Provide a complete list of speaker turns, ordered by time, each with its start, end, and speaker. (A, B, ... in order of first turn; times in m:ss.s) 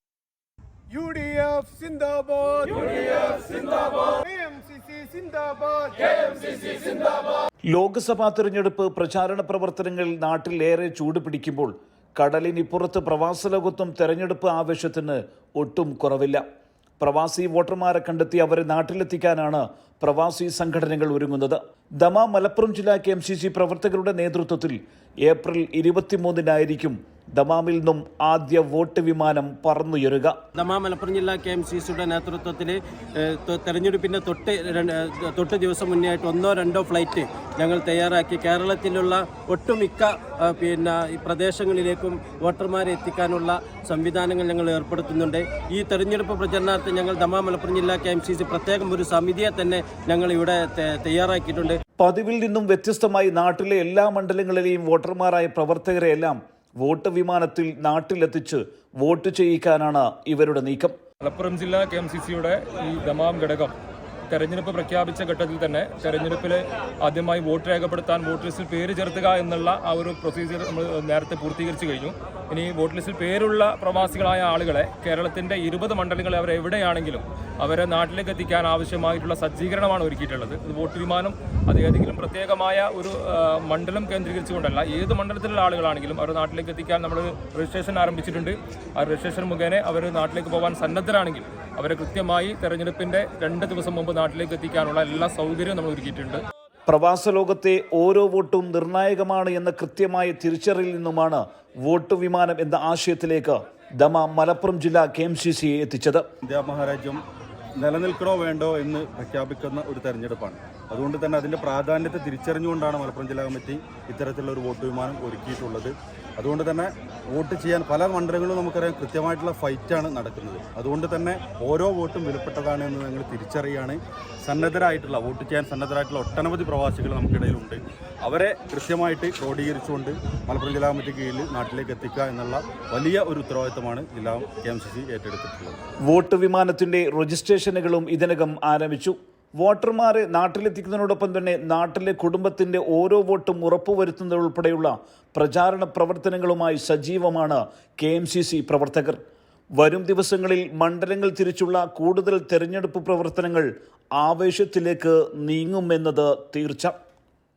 0:00.9-0:07.0 A
0:07.7-0:16.4 B
0:17.0-0:30.4 B
0:30.6-0:51.8 C
0:52.0-1:01.0 B
1:01.2-1:03.8 D
1:04.3-1:36.4 D
1:36.9-1:46.3 B
1:46.4-1:47.2 E
1:47.8-2:15.8 E
2:16.1-2:29.2 B
2:29.8-2:36.9 B